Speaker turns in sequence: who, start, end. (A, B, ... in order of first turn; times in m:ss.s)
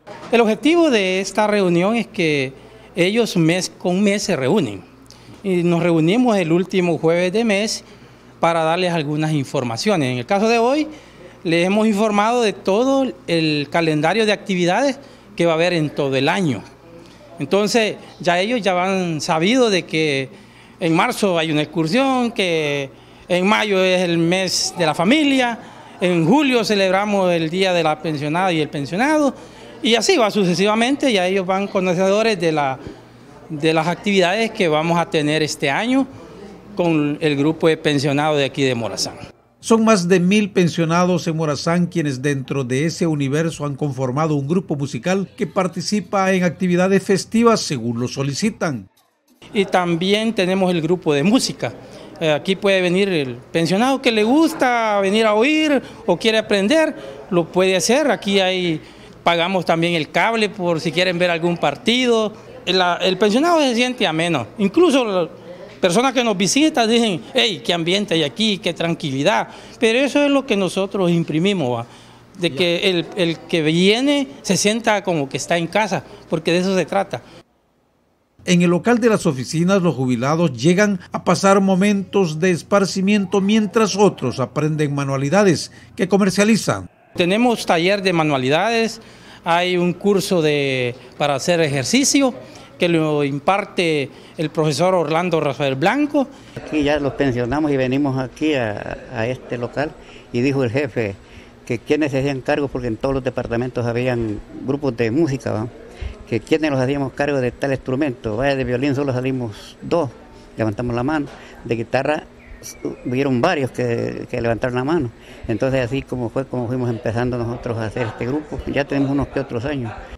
0:00.3-0:04.8 A
0:05.4-0:07.8 A
0:08.4-0:10.9 A
0:11.4-0:16.6 A
0:17.4-0:32.8 A
0:33.5-0:36.1 A
0:36.8-0:39.2 A
0:39.6-0:48.9 B
0:49.5-1:17.2 A
1:18.5-1:26.9 B
1:27.2-1:36.3 A
1:36.6-1:45.7 C
1:46.3-1:59.9 C